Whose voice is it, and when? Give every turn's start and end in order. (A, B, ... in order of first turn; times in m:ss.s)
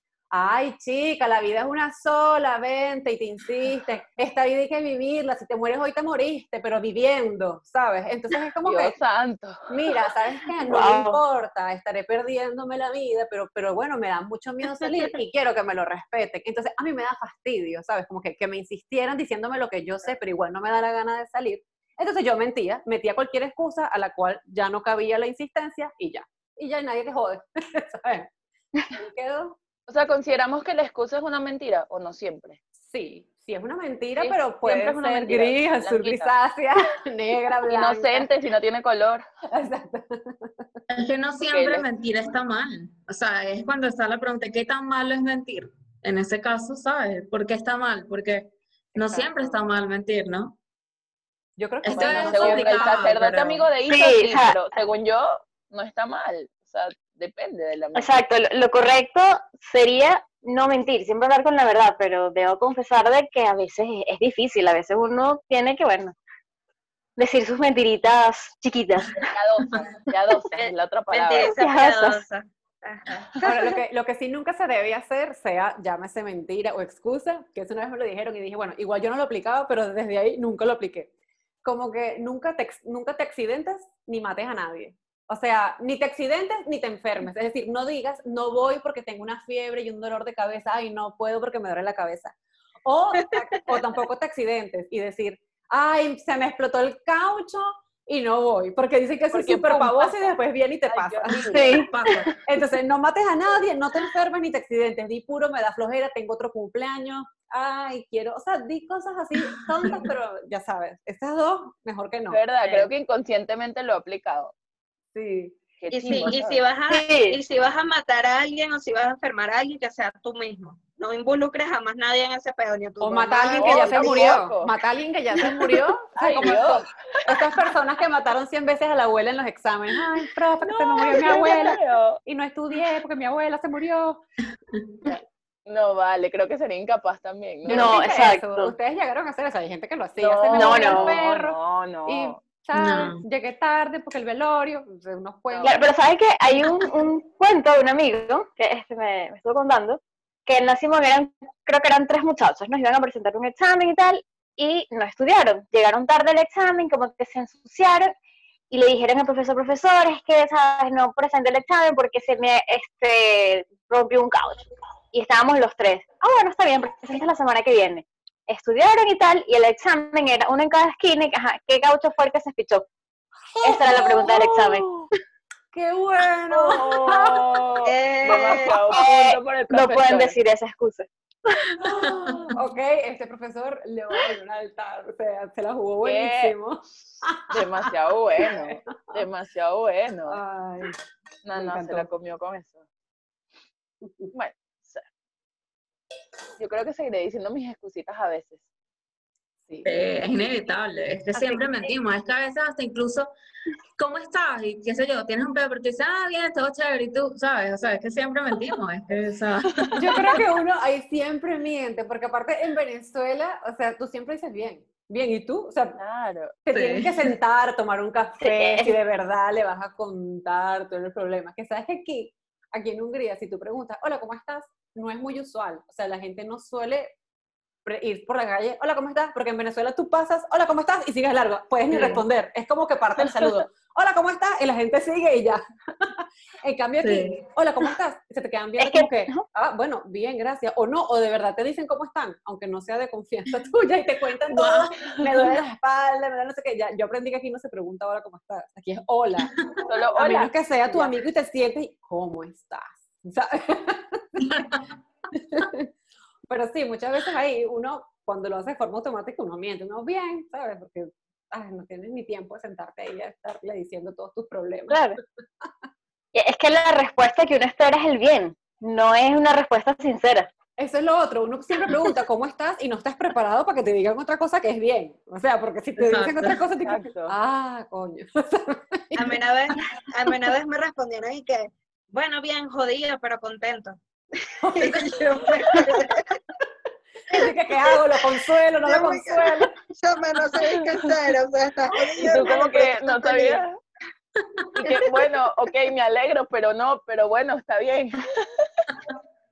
0:00.3-0:09.0 A
0:08.6-0:09.9 B
0:09.7-0:28.3 A
0:10.7-0:11.2 C
0:28.9-0:29.6 A
0:29.9-0:32.6 B
0:32.8-0:38.3 A
0:34.2-0:36.3 B
0:37.6-0:39.2 B
0:39.5-0:40.5 A
0:40.9-0:50.6 D
0:41.5-0:41.8 B
0:48.9-0:49.6 A
0:51.6-0:53.0 A
0:51.8-0:53.6 D
0:52.0-0:58.1 B
0:53.9-0:54.6 C
0:57.9-1:06.1 C
1:07.2-1:09.3 C
1:09.2-1:11.6 B
1:10.5-1:13.6 E
1:11.4-1:12.2 C
1:13.4-1:21.1 A
1:21.6-1:41.8 A
1:39.3-1:41.9 B
1:41.5-1:42.3 C
1:41.7-1:42.3 D
1:42.4-1:52.9 A
1:52.3-1:54.5 B
1:55.1-1:55.6 A
1:55.8-1:56.6 B
1:55.9-2:04.4 E
1:56.9-1:57.4 C
2:03.0-2:14.2 A
2:03.5-2:04.7 B
2:06.1-2:06.9 B
2:10.6-2:12.2 B
2:15.0-2:18.2 B
2:17.6-2:25.8 A
2:17.7-2:18.7 C
2:20.2-2:22.4 B
2:20.5-2:21.2 C
2:22.7-2:23.2 D
2:25.5-2:25.8 B
2:25.6-2:38.1 C
2:38.7-2:52.8 C
2:53.6-2:54.2 A
2:53.6-2:55.0 C
2:53.9-2:55.0 B
2:55.7-2:57.5 A
2:56.5-3:00.4 B
2:57.8-2:58.8 E
2:58.9-3:01.7 C
3:01.8-3:07.6 A
3:01.9-3:02.5 D
3:06.0-3:06.6 B
3:07.5-3:10.4 B
3:08.4-3:09.2 A
3:10.3-3:11.0 A
3:11.4-3:12.8 B
3:11.5-3:12.1 A
3:14.3-3:15.1 B
3:16.6-3:18.6 B
3:19.7-3:20.0 A
3:19.8-3:23.3 D
3:24.0-3:30.3 D
3:29.9-3:36.0 A
3:36.0-3:36.6 B
3:36.6-3:47.1 A
3:36.7-3:37.3 D
3:38.4-3:39.0 C
3:47.8-4:09.5 A
3:51.9-3:52.2 D
3:57.0-3:57.4 D
3:58.8-3:59.4 C
4:04.5-4:05.2 D
4:09.8-4:11.1 B
4:10.2-4:14.8 A
4:14.6-4:14.9 D
4:15.3-4:15.9 A
4:16.5-4:25.0 A
4:24.9-4:25.2 C
4:26.3-4:30.5 C
4:30.8-4:39.4 A
4:36.0-4:36.6 D
4:36.8-4:37.3 B
4:39.1-4:44.0 E
4:44.6-4:45.9 A
4:44.7-4:46.4 E
4:47.3-4:49.7 A
4:48.8-4:53.6 E
4:50.6-4:51.0 B
4:52.2-4:53.8 B
4:54.6-4:55.0 D
4:54.8-4:58.9 B